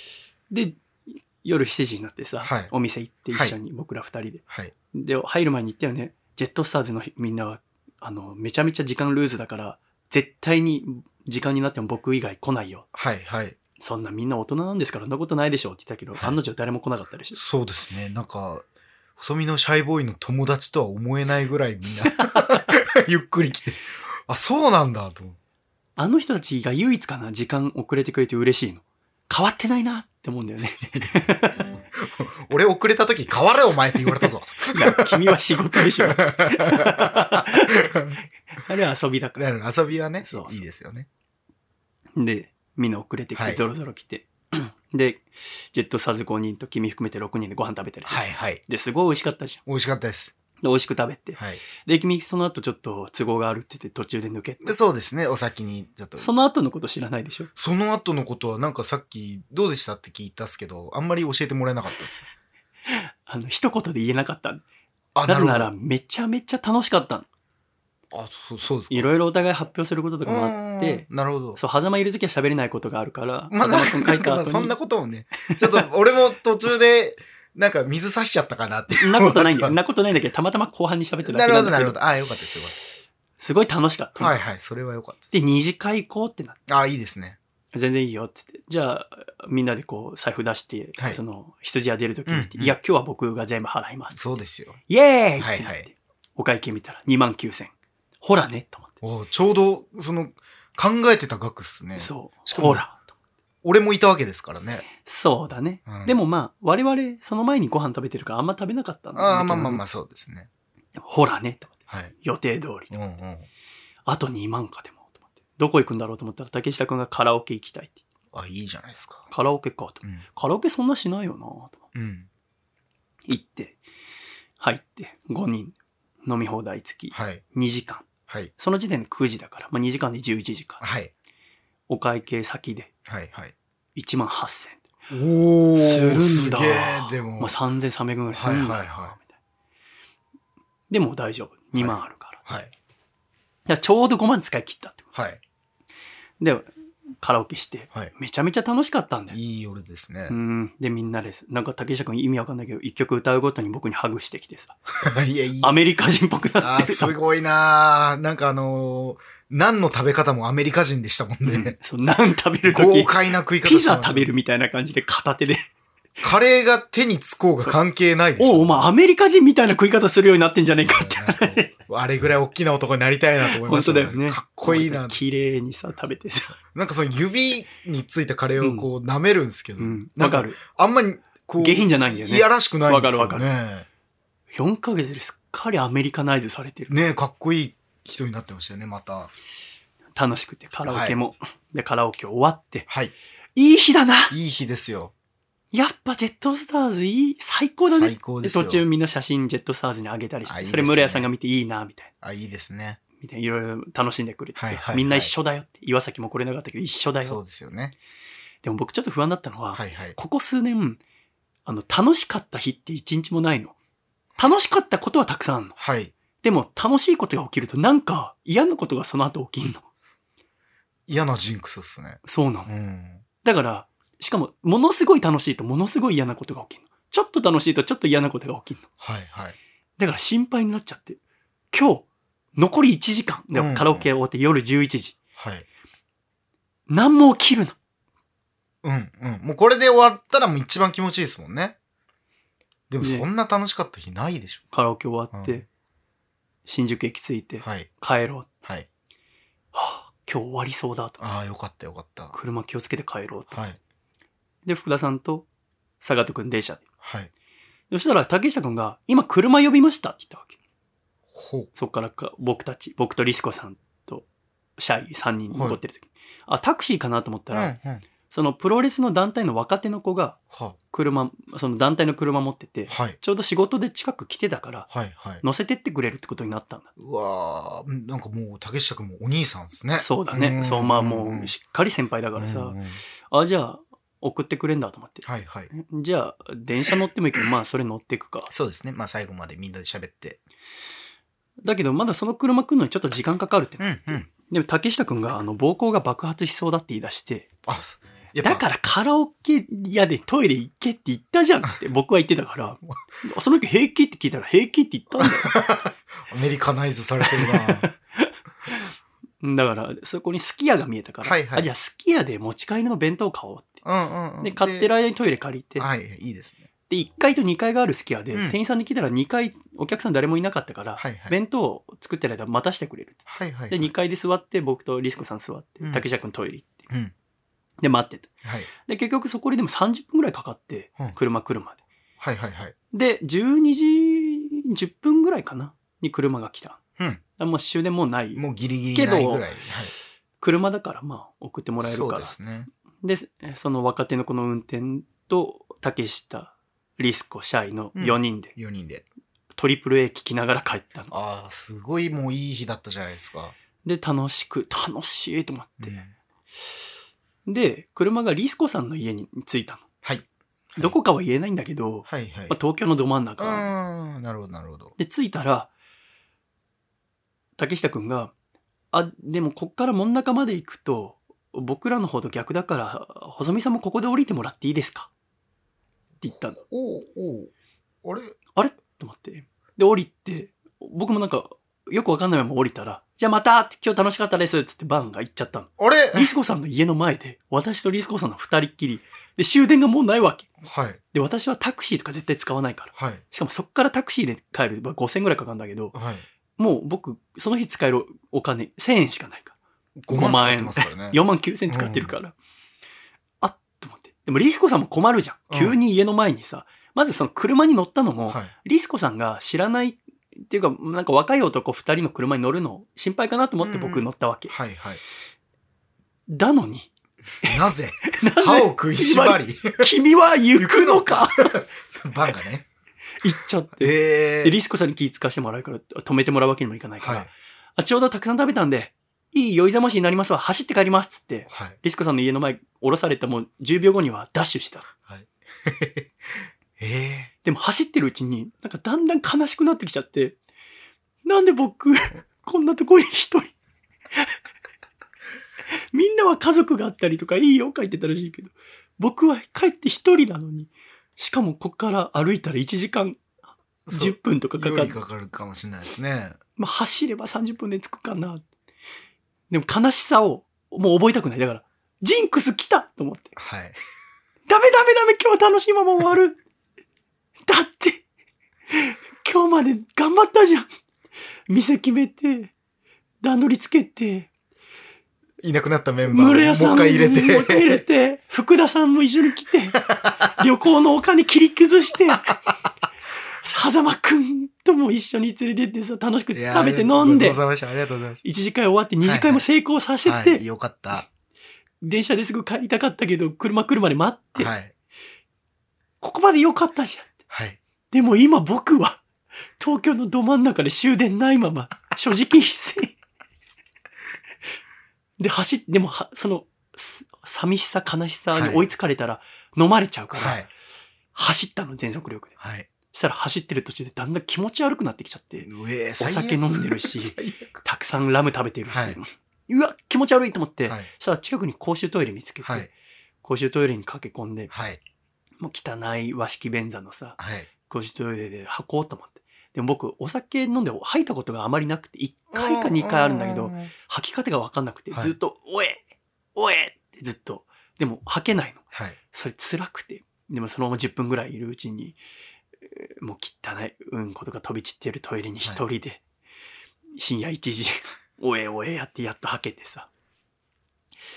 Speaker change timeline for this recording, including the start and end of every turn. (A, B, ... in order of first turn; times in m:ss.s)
0:00.5-0:12.9 A
0:02.4-0:02.7 B
0:12.9-0:13.6 B
0:13.8-0:17.4 A
0:17.3-0:18.6 B
0:19.2-0:25.4 B
0:22.3-0:22.6 A
0:26.0-0:31.6 A
0:30.8-0:31.1 B
0:32.0-0:38.2 B
0:34.2-0:37.9 A
0:38.5-0:39.4 A
0:39.4-0:41.1 B
0:40.2-0:40.6 A
0:42.2-0:49.6 A
0:43.4-0:43.6 B
0:48.1-0:48.6 B
0:49.6-0:50.3 B
0:50.6-0:54.7 A
0:54.6-0:56.3 B
0:56.2-0:57.5 A
0:57.6-1:02.3 B
1:02.9-1:04.6 A
1:05.1-1:05.7 B
1:05.2-1:07.2 A
1:08.1-1:09.1 B
1:08.9-1:14.7 A
1:10.2-1:11.6 B
1:13.5-1:19.8 B
1:15.4-1:15.8 A
1:18.9-1:22.0 A
1:21.2-1:22.7 B
1:23.4-1:24.4 A
1:24.2-1:25.3 B
1:25.3-1:26.6 A
1:26.7-1:27.4 B
1:27.7-1:34.2 A
1:32.3-1:32.7 B
1:34.1-1:34.8 B
1:34.9-1:37.7 A
1:35.4-1:35.9 B
1:38.2-1:38.9 A
1:39.0-1:42.8 B
1:42.0-1:43.0 A
1:43.6-1:44.8 B
1:44.9-1:49.8 A
1:45.9-1:46.2 B
1:49.1-1:50.5 B
1:51.0-1:52.9 A
1:52.9-1:53.5 B
1:54.0-1:58.0 A
1:58.3-1:59.3 B
1:59.3-2:01.8 A
2:01.9-2:02.3 B
2:03.3-2:03.8 A
2:04.6-2:08.0 A
2:07.1-2:07.4 B
2:08.6-2:10.8 A
2:10.8-2:11.1 B
2:11.9-2:12.9 A
2:13.1-2:13.5 B
2:14.0-2:14.9 A
2:15.1-2:17.6 B
2:15.8-2:19.3 A
2:18.3-2:19.2 B
2:20.9-2:22.4 A
2:21.7-2:22.7 B
2:23.7-2:25.0 A
2:25.1-2:25.4 B
2:26.4-2:26.7 A
2:27.2-2:29.4 A
2:29.3-2:30.4 B
2:30.3-2:34.8 A
2:35.0-2:35.8 B
2:35.6-2:37.2 A
2:36.6-2:41.8 B
2:41.4-2:45.6 A
2:42.6-2:44.3 B
2:46.2-2:48.9 B
2:48.4-2:51.7 A
2:50.8-2:55.2 B
2:53.4-2:56.6 A
2:56.7-3:03.8 B
2:58.6-2:58.9 A
2:59.8-3:00.6 A
3:01.6-3:03.5 A
3:04.5-3:06.9 A
3:06.9-3:09.3 B
3:10.2-3:12.8 A
3:10.8-3:11.2 B
3:12.9-3:13.1 B
3:13.6-3:14.3 A
3:14.3-3:15.1 B
3:15.7-3:22.1 A
3:17.9-3:18.8 B
3:20.4-3:21.3 B
3:22.2-3:23.0 B
3:23.2-3:27.4 A
3:24.6-3:25.3 B
3:27.2-3:28.0 B
3:28.6-3:31.0 A
3:29.7-3:30.2 B
3:31.6-3:33.7 A
3:34.4-3:35.8 A
3:35.8-3:36.1 B
3:36.4-3:39.8 A
3:41.1-3:43.2 B
3:42.2-3:42.7 A
3:43.4-3:48.8 A
3:49.0-3:49.6 B
3:50.0-3:51.2 A
3:51.7-3:55.2 A
3:53.5-3:54.1 B
3:55.4-3:55.6 B
3:56.9-3:57.8 A
3:58.8-4:01.8 B
4:02.9-4:04.6 B
4:03.0-4:03.3 A
4:04.7-4:05.6 A
4:05.3-4:05.6 B
4:06.6-4:08.5 A
4:07.6-4:07.9 B
4:09.7-4:11.2 A
4:11.2-4:12.3 B
4:12.3-4:13.6 A
4:13.5-4:13.8 B
4:14.6-4:15.5 A
4:16.0-4:16.8 A
4:17.0-4:17.3 B
4:17.9-4:20.6 A
4:21.3-4:21.7 B
4:21.7-4:24.2 A
4:24.8-4:27.7 A
4:25.5-4:25.8 B
4:27.5-4:28.0 B
4:28.3-4:30.4 A
4:30.5-4:30.8 B
4:30.9-4:34.9 A
4:32.9-4:33.2 B
4:34.9-4:35.4 B
4:35.4-4:36.9 A
4:37.0-4:41.5 B
4:40.0-4:42.8 A
4:42.4-4:43.0 B
4:43.3-4:48.5 A
4:45.2-4:45.7 B
4:48.5-4:50.4 B
4:51.6-4:57.5 A
4:53.8-4:54.3 B
4:57.6-4:58.6 B
4:58.4-5:05.6 A
5:05.2-5:07.9 B
5:07.3-5:08.9 A
5:09.4-5:13.8 A
5:11.2-5:11.7 B
5:13.8-5:14.9 B
5:14.4-5:15.9 A
5:15.8-5:16.7 B
5:16.9-5:26.9 A
5:21.0-5:21.3 B
5:23.3-5:23.9 B
5:27.8-5:31.8 A
5:28.4-5:28.7 B
5:32.2-5:32.7 B
5:32.9-5:36.8 A
5:37.4-5:39.5 A
5:38.3-5:39.9 B
5:40.4-5:42.3 A
5:41.8-5:42.7 B
5:43.0-5:48.5 A
5:48.0-5:49.0 B
5:49.5-5:51.1 A
5:51.1-5:53.6 B
5:53.8-5:56.0 A
5:55.8-5:56.1 B
5:57.4-5:59.8 A
6:00.0-6:01.0 B
6:00.8-6:03.7 A
6:02.1-6:02.5 B
6:03.4-6:04.9 B
6:05.0-6:05.7 A
6:07.6-6:08.3 A
6:08.9-6:15.1 A
6:16.2-6:16.6 A
6:16.3-6:17.5 B
6:18.0-6:18.4 B
6:18.5-6:30.5 A
6:25.8-6:26.3 B
6:30.6-6:31.0 B
6:31.1-6:36.0 A
6:32.9-6:33.2 B
6:35.9-6:36.2 B
6:36.6-6:39.5 A
6:40.0-6:42.1 B
6:40.1-6:42.4 A
6:43.4-6:54.5 A
6:45.5-6:45.8 B
6:53.6-6:55.0 B
6:56.3-6:56.9 A
6:57.4-6:59.9 B
6:57.4-7:01.6 A
7:00.5-7:02.7 B
7:03.2-7:14.9 A
7:03.8-7:04.6 B
7:07.0-7:07.3 B
7:11.5-7:11.8 B
7:15.0-7:17.3 B
7:17.4-7:20.4 A
7:21.2-7:23.5 A
7:25.9-7:33.2 A
7:33.8-7:36.4 B
7:33.9-7:35.0 A
7:36.6-7:38.4 A
7:39.5-7:43.4 A
7:43.4-7:43.8 B
7:44.5-7:46.4 A
7:47.5-7:48.0 A
7:48.7-7:50.7 A
7:51.5-7:52.5 A
7:53.2-7:54.3 A
7:55.4-7:57.8 B
7:56.1-7:59.8 A
7:59.8-8:00.3 B
8:00.4-8:02.4 A
8:03.4-8:07.4 A
8:06.3-8:08.2 B
8:08.2-8:10.4 A
8:09.0-8:09.4 B
8:10.0-8:11.0 B
8:11.8-8:14.5 A
8:14.4-8:14.7 B
8:16.0-8:17.1 A
8:17.3-8:17.6 B
8:17.9-8:19.0 A
8:19.6-8:23.0 A
8:25.2-8:30.4 A
8:28.3-8:28.6 B
8:30.2-8:30.5 B
8:31.1-8:32.4 A
8:32.4-8:32.7 B
8:32.9-8:35.5 A
8:35.4-8:37.6 B
8:36.0-8:42.7 A
8:38.7-8:39.0 B
8:42.4-8:42.7 B
8:43.2-8:44.5 A
8:44.5-8:44.8 B
8:45.4-9:02.0 A
8:47.2-8:47.5 B
8:52.3-8:53.7 B
8:58.7-8:59.0 B
9:02.6-9:06.0 A
9:06.9-9:09.9 A